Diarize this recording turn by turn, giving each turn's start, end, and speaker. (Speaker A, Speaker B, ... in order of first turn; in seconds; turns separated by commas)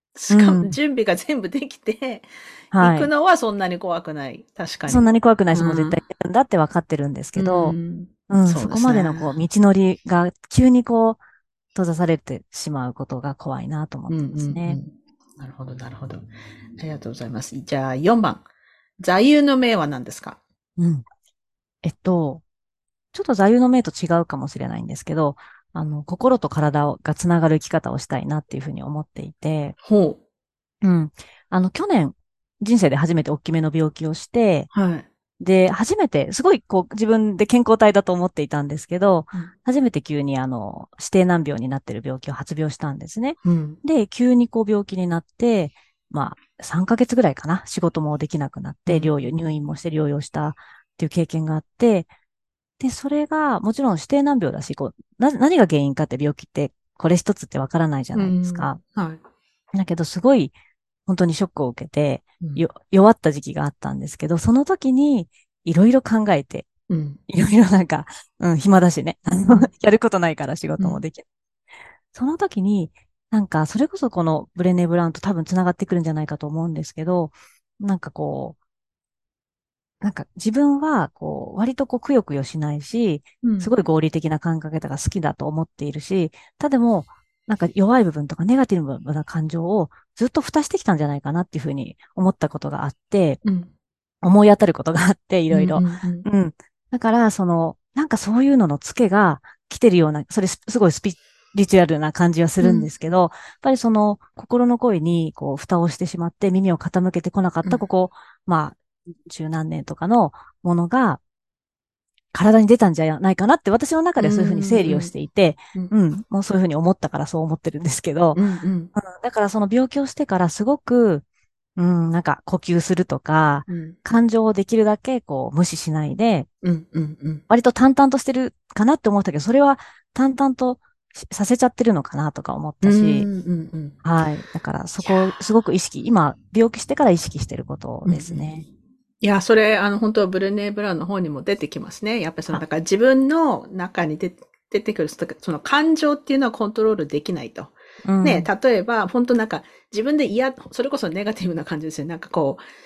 Speaker A: 0.1-6.0, Speaker B: 0.3-0.8, Speaker B: 2.7-3.1, Speaker B: 4.9-7.8, Speaker A: 7.3-9.4, Speaker B: 8.3-11.2, Speaker B: 11.7-14.8, Speaker A: 14.1-18.4, Speaker A: 19.0-20.4, Speaker B: 20.8-21.0, Speaker B: 21.8-22.4, Speaker B: 23.1-29.8, Speaker A: 29.8-30.2, Speaker B: 30.8-34.7, Speaker A: 34.7-35.1, Speaker B: 35.4-52.1, Speaker A: 43.4-43.8, Speaker A: 48.9-49.1, Speaker B: 52.8-58.8, Speaker A: 58.1-59.2, Speaker B: 59.7-60.5, Speaker B: 61.0-66.7, Speaker A: 62.4-62.6, Speaker A: 66.9-67.2, Speaker B: 67.3-71.2, Speaker B: 72.1-78.6, Speaker B: 80.0-93.4, Speaker A: 83.4-83.7, Speaker A: 93.4-93.7, Speaker B: 94.2-111.2, Speaker A: 95.5-96.3, Speaker A: 102.6-102.9, Speaker B: 112.3-118.4, Speaker A: 114.2-115.1, Speaker A: 118.3-118.9, Speaker B: 118.9-121.2, Speaker B: 121.8-126.5, Speaker A: 123.7-124.0, Speaker A: 126.6-127.4, Speaker B: 127.5-133.3, Speaker A: 132.8-134.0, Speaker B: 134.0-138.6, Speaker A: 135.0-135.5, Speaker A: 138.1-138.5, Speaker A: 139.2-152.6, Speaker B: 148.0-148.5